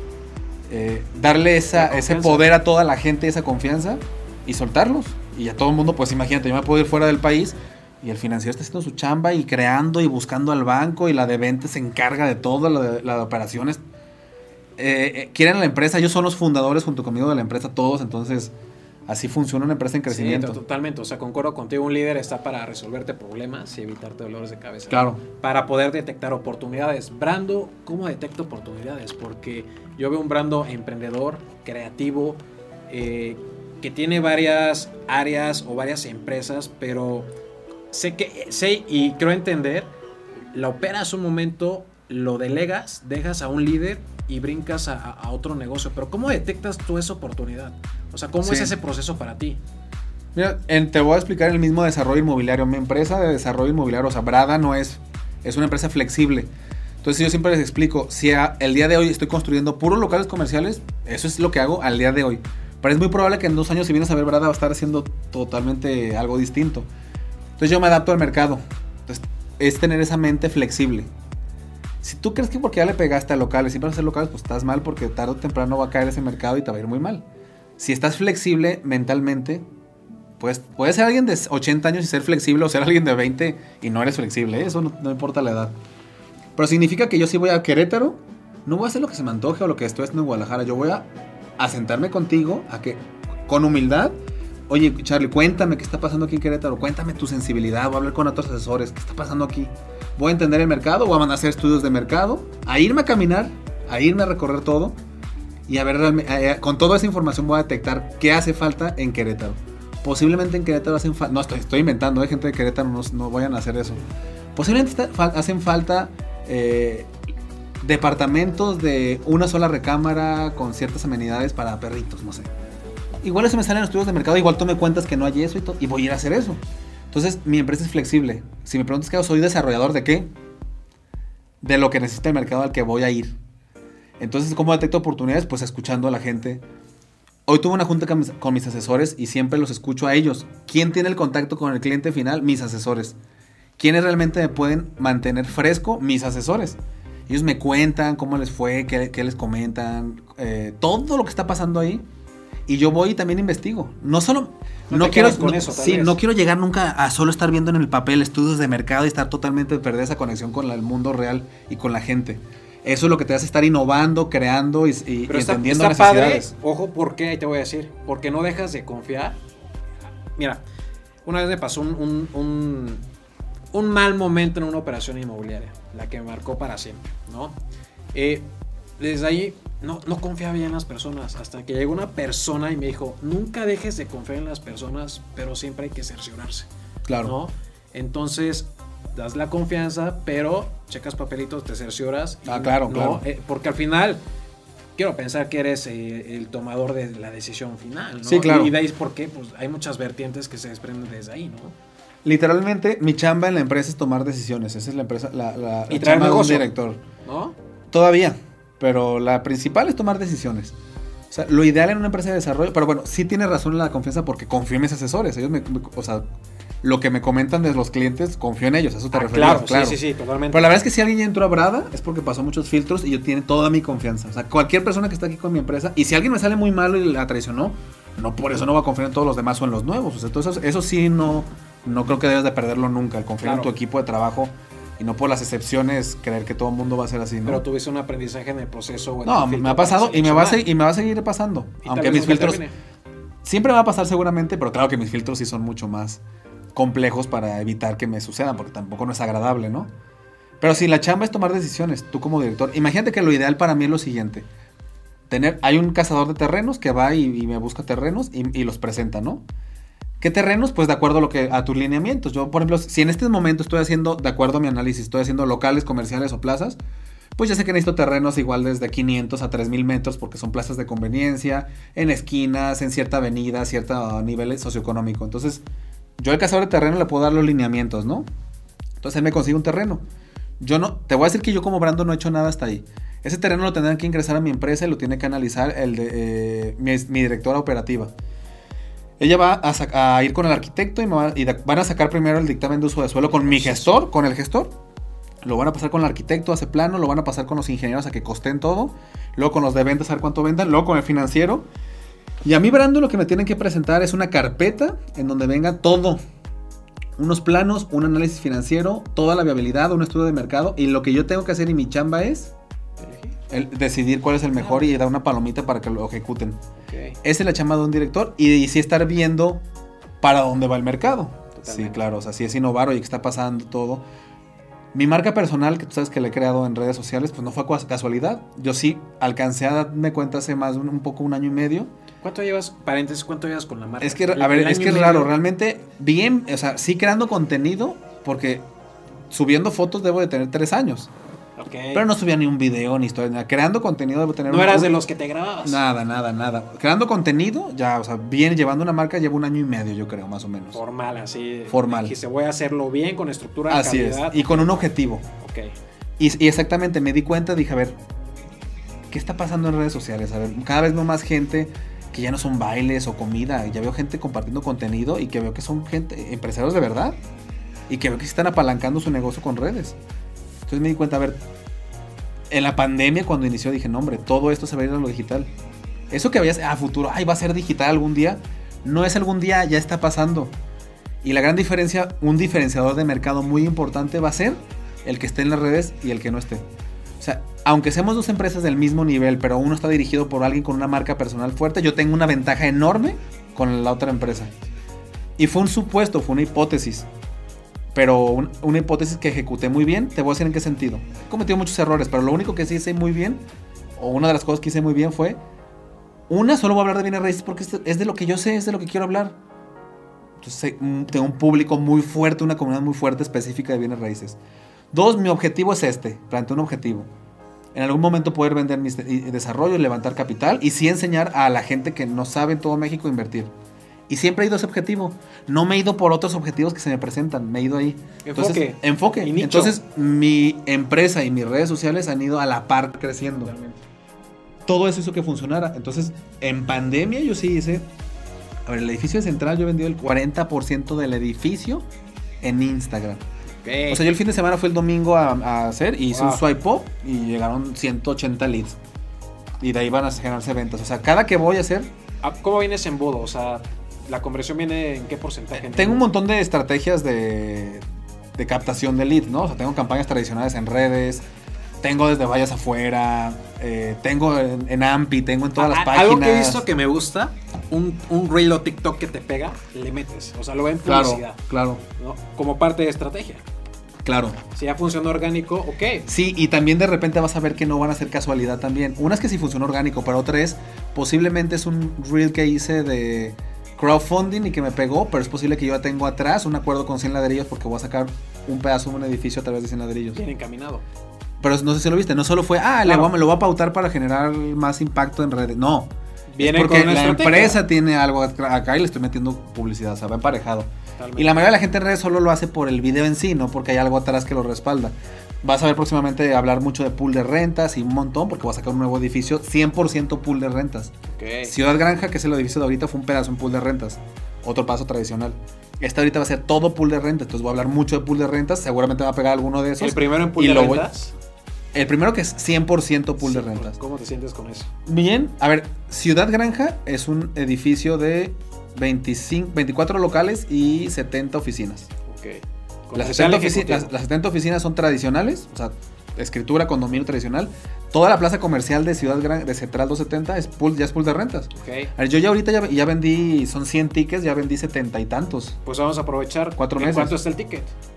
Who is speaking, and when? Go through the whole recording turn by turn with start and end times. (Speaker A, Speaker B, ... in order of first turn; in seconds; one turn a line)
Speaker A: 0.7-13.8
Speaker B: 1.7-2.5
Speaker A: 14.8-18.5
Speaker A: 19.1-20.6
Speaker B: 20.1-37.3
Speaker A: 24.9-25.2
Speaker B: 37.9-39.9
Speaker B: 40.5-49.6
Speaker A: 48.4-48.7
Speaker A: 50.4-56.5
Speaker A: 57.0-66.9
Speaker A: 67.6-71.1
Speaker A: 72.0-77.2
Speaker A: 77.8-79.6
Speaker A: 80.4-85.7
Speaker A: 86.6-91.1
Speaker A: 91.6-94.2
Speaker A: 94.7-105.0
Speaker A: 105.7-114.0
Speaker A: 114.5-117.1
Speaker A: 117.8-122.5
Speaker A: 123.2-126.6
Speaker A: 127.1-130.3
Speaker A: 131.6-133.4
Speaker A: 134.2-136.6
Speaker A: 137.5-143.2
Speaker A: 143.8-152.1
Speaker A: 152.7-166.5
Speaker B: 154.9-156.2
Speaker B: 165.3-169.4
Speaker B: 171.2-173.0
Speaker B: 173.7-177.6
Speaker B: 178.1-178.4
Speaker B: 179.0-186.7
Speaker A: 187.1-187.3
Speaker B: 187.2-194.2
Speaker A: 192.5-193.2
Speaker B: 195.0-201.8
Speaker A: 198.2-198.7
Speaker A: 202.2-207.0
Speaker B: 205.9-206.7
Speaker B: 207.2-207.6
Speaker A: 207.9-210.8
Speaker A: 211.3-216.2
Speaker A: 216.8-220.0
Speaker B: 219.1-220.7
Speaker A: 220.5-237.6
Speaker B: 233.4-233.7
Speaker B: 237.4-240.6
Speaker A: 239.2-242.6
Speaker B: 241.8-242.8
Speaker A: 243.4-246.2
Speaker A: 246.8-249.9
Speaker A: 250.6-254.5
Speaker A: 255.3-259.4
Speaker A: 260.2-266.8
Speaker A: 267.4-275.6
Speaker A: 276.2-278.3
Speaker A: 279.0-280.0
Speaker A: 280.6-288.1
Speaker A: 289.2-294.7
Speaker B: 293.3-294.0
Speaker A: 295.4-301.6
Speaker A: 302.4-306.2
Speaker A: 307.2-312.5
Speaker B: 313.0-313.4
Speaker A: 313.5-316.6
Speaker B: 316.9-317.2
Speaker A: 317.2-319.6
Speaker A: 320.2-324.0
Speaker B: 321.6-322.1
Speaker A: 324.9-331.9
Speaker B: 332.2-335.3
Speaker A: 334.0-338.6
Speaker A: 339.3-341.1
Speaker B: 341.6-342.1
Speaker A: 341.9-344.9
Speaker B: 344.5-345.8
Speaker A: 345.6-350.8
Speaker B: 350.7-354.8
Speaker A: 351.7-352.1
Speaker A: 353.7-355.3
Speaker B: 355.4-355.7
Speaker A: 356.2-357.9
Speaker A: 359.1-367.2
Speaker A: 367.9-370.0
Speaker A: 370.7-371.4
Speaker A: 372.5-375.5
Speaker A: 376.1-380.5
Speaker A: 381.2-386.6
Speaker A: 387.2-394.5
Speaker A: 395.4-397.1
Speaker A: 397.9-403.4
Speaker A: 404.0-405.4
Speaker A: 406.3-409.4
Speaker A: 410.4-414.4
Speaker A: 414.9-417.1
Speaker A: 417.7-423.5
Speaker A: 424.1-433.5
Speaker B: 428.2-429.8
Speaker B: 433.4-433.8
Speaker A: 434.7-437.8
Speaker A: 438.7-441.8
Speaker A: 442.4-443.2
Speaker B: 443.6-444.1
Speaker A: 443.9-448.8
Speaker B: 446.1-446.4
Speaker A: 449.6-451.9
Speaker B: 452.2-456.0
Speaker A: 455.6-457.8
Speaker A: 458.4-461.2
Speaker A: 461.8-466.6
Speaker B: 465.6-471.4
Speaker A: 470.9-471.8
Speaker B: 472.0-473.4
Speaker A: 474.0-474.4
Speaker B: 474.5-476.1
Speaker A: 476.1-490.2
Speaker B: 490.1-490.8
Speaker A: 491.4-510.9
Speaker B: 492.9-493.1
Speaker B: 496.3-497.6
Speaker B: 501.0-501.5
Speaker B: 511.1-511.6
Speaker A: 511.4-520.9
Speaker B: 519.8-521.1
Speaker A: 521.7-523.8
Speaker B: 523.2-524.7
Speaker A: 524.9-531.9
Speaker B: 532.1-533.9
Speaker A: 533.0-545.6
Speaker B: 541.5-541.9
Speaker B: 545.6-547.7
Speaker A: 546.6-547.2